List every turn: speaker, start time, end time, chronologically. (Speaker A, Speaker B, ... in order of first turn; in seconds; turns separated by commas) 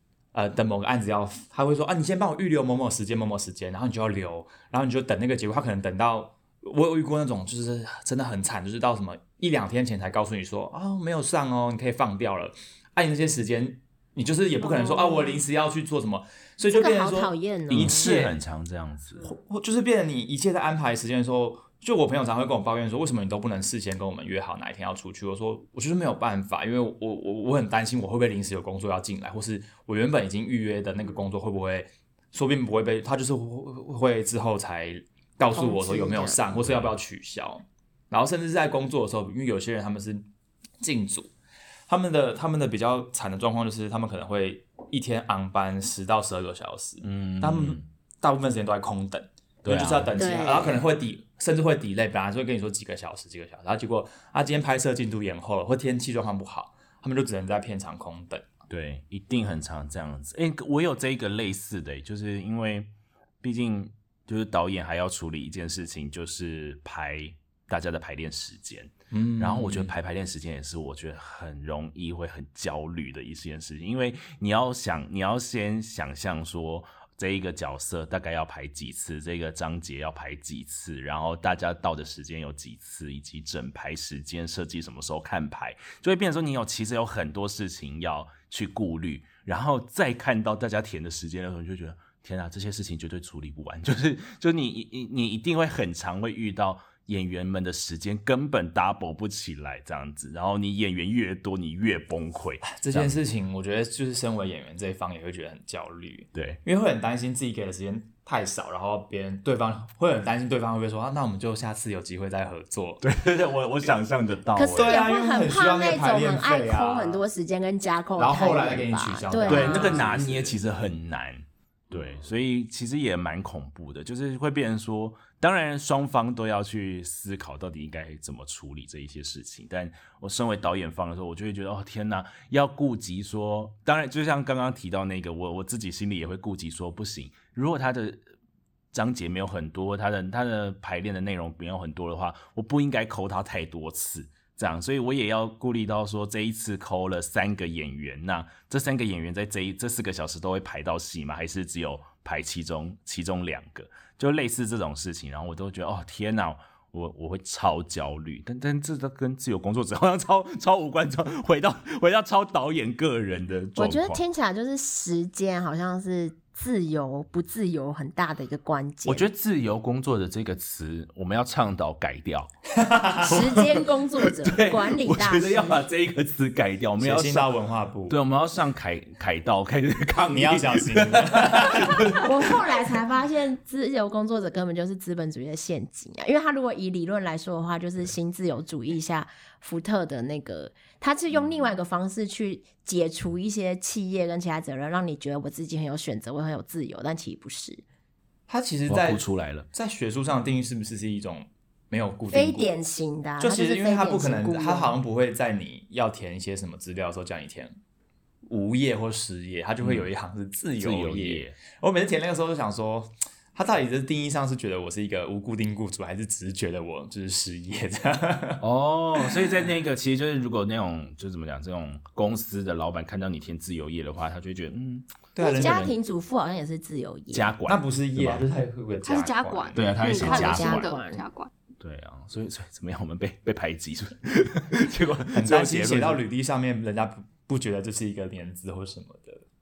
Speaker A: 0.3-18.4, Speaker B: 14.6-15.4, Speaker B: 16.7-18.1, Speaker C: 17.7-19.3, Speaker A: 19.2-40.3, Speaker B: 35.5-36.4, Speaker C: 36.5-36.9, Speaker A: 40.8-41.3, Speaker A: 41.9-58.5, Speaker C: 47.0-47.9, Speaker C: 49.6-50.2, Speaker B: 50.1-50.8, Speaker C: 58.7-62.9, Speaker C: 63.4-103.2, Speaker A: 69.1-69.9, Speaker A: 102.7-113.0, Speaker C: 106.3-106.6, Speaker C: 113.0-115.0, Speaker B: 114.5-120.1, Speaker A: 114.8-117.2, Speaker A: 118.2-120.6, Speaker C: 119.5-138.2, Speaker C: 138.9-164.2, Speaker B: 163.8-169.3, Speaker C: 169.0-172.5, Speaker A: 172.8-173.5, Speaker B: 173.2-175.8, Speaker C: 173.2-177.5, Speaker A: 177.0-178.2, Speaker C: 178.1-182.5, Speaker A: 180.3-182.2, Speaker B: 182.2-197.8, Speaker A: 198.5-202.7, Speaker C: 198.9-199.7, Speaker B: 202.3-205.0, Speaker A: 203.4-207.8, Speaker A: 208.5-218.6, Speaker C: 209.8-210.1, Speaker C: 210.8-211.6, Speaker C: 218.6-225.9, Speaker A: 225.3-225.9, Speaker B: 225.4-227.5, Speaker C: 227.3-228.5, Speaker A: 227.7-229.9, Speaker D: 229.0-231.5, Speaker C: 229.7-230.9, Speaker B: 230.1-231.2, Speaker C: 231.8-236.2, Speaker A: 235.3-239.4